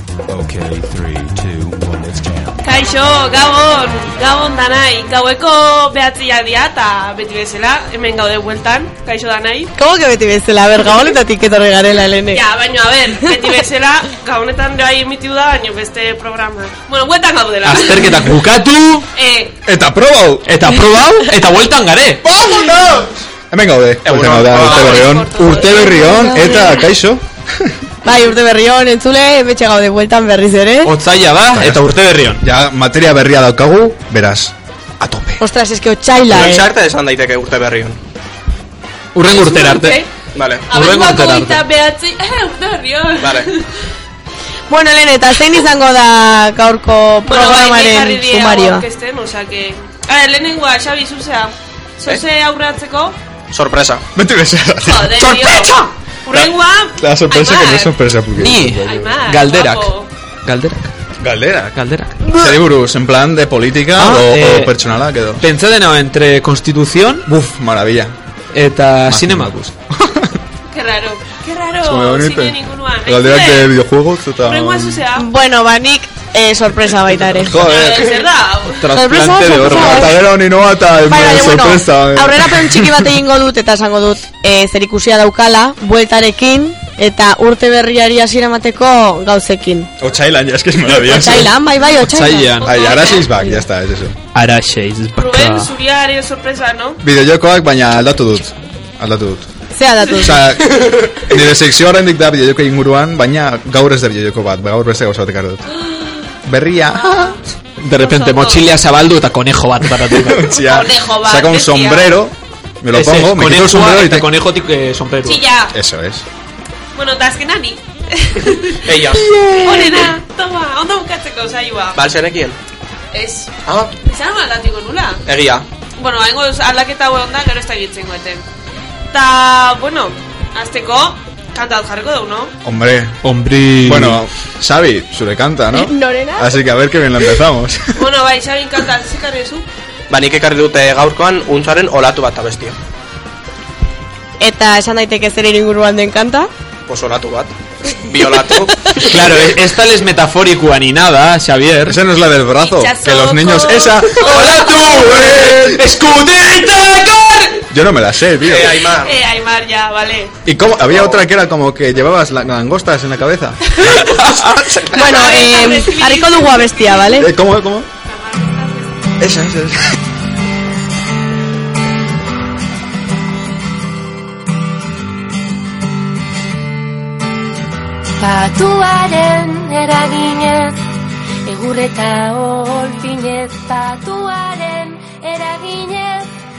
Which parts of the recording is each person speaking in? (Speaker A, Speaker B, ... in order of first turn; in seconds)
Speaker A: 0.3-2.7
Speaker B: 2.6-9.7, 12.3-18.4, 19.1-19.6, 24.5-26.8, 39.3-40.1, 40.7-43.7, 47.2-53.2, 54.8-58.0, 58.8-60.1, 70.7-73.7, 74.4-75.3, 77.6-78.9, 92.6-93.3, 95.2-97.0, 107.0-107.4, 108.0-108.7, 110.5-112.2, 115.2-115.7, 117.0-118.8, 119.6-122.0, 123.1-125.2, 126.0-128.4, 129.1-132.5, 137.9-139.7, 152.6-155.2, 159.0-160.3, 165.0-167.3, 168.1-169.1
Speaker C: 9.8-12.4, 25.7-26.8, 28.0-30.9, 35.4-36.6, 44.7-48.9, 75.2-77.6, 78.9-80.2, 81.1-89.9, 90.8-92.6, 93.2-93.6, 99.8-100.4, 135.7-136.5, 144.4-146.5, 164.9-167.3
Speaker D: 17.6-19.1, 20.5-22.2, 30.8-32.4, 39.1-40.0, 40.7-41.6, 55.3-55.9, 58.4-59.9, 60.5-60.9, 61.8-62.6, 64.0-64.7, 65.4-67.2, 68.5-69.7, 78.8-80.2, 92.0-93.0, 94.3-95.7, 107.8-110.5, 112.9-115.4, 133.2-134.2, 149.0-152.0, 154.2-157.7
Speaker E: 19.6-20.5, 22.2-27.7, 31.5-35.4, 54.1-55.4, 57.0-59.2, 61.2-65.4, 67.3-68.2, 69.0-70.4, 71.8-75.0, 77.3-78.2, 79.6-83.1, 90.0-91.5, 92.6-94.2, 97.0-99.5, 100.2-105.7, 106.4-107.4, 110.1-114.3, 115.7-116.2, 132.6-133.2, 133.8-137.9, 151.8-155.9, 157.7-158.8, 160.5-164.1, 167.2-167.9, 169.2-169.9
Speaker F: 24.0-25.2, 36.3-38.0, 40.4-40.7, 43.2-43.5, 53.5-54.0, 118.8-119.3, 122.0-122.6, 123.7-123.9, 125.3-125.7, 140.1-142.8, 146.9-148.7, 158.4-159.2, 160.9-161.2, 164.2-165.1
Speaker G: 178.2-180.8, 181.4-186.3